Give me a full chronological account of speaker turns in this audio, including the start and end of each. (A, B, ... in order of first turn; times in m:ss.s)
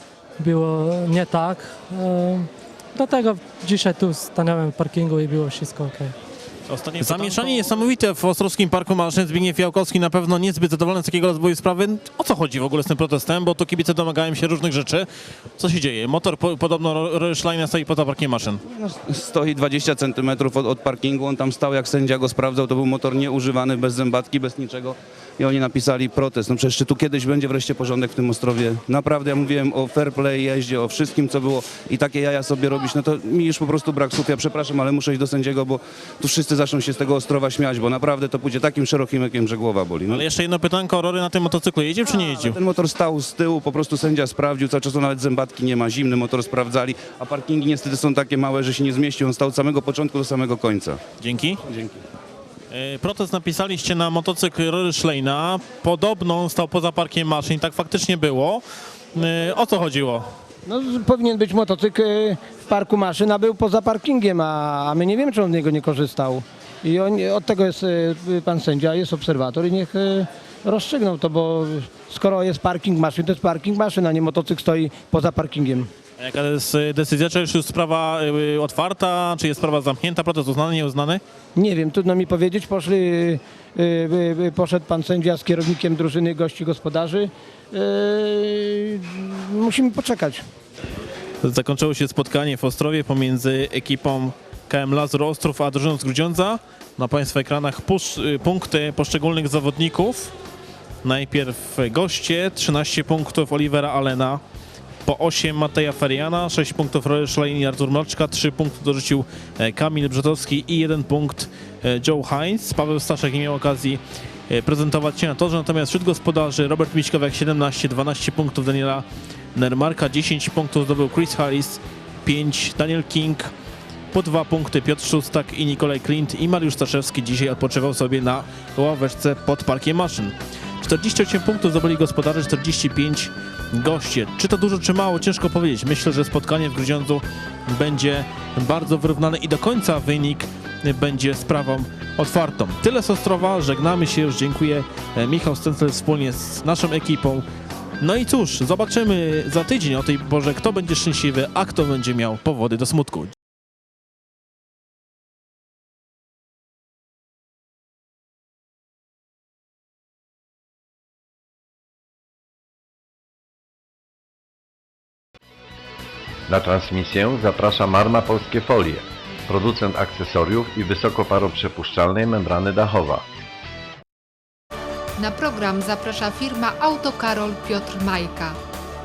0:00.4-0:06.1 A
0:06.7-0:15.1 B
0:15.6-0:18.6 B
0:18.6-0:40.2 C
0:40.1-0:42.6 B
0:42.2-0:51.0 C
0:51.2-0:51.6 B
0:51.6-0:52.0 C
0:52.7-1:00.3 B
1:00.7-1:15.9 D
1:16.2-1:21.2 B
1:21.6-1:30.5 D
1:31.4-1:40.3 B
1:41.0-1:44.4 B
1:45.1-2:03.5 B
2:04.1-2:27.4 B
2:28.0-2:33.4 B
2:46.5-2:53.2 E
2:55.2-2:58.6 F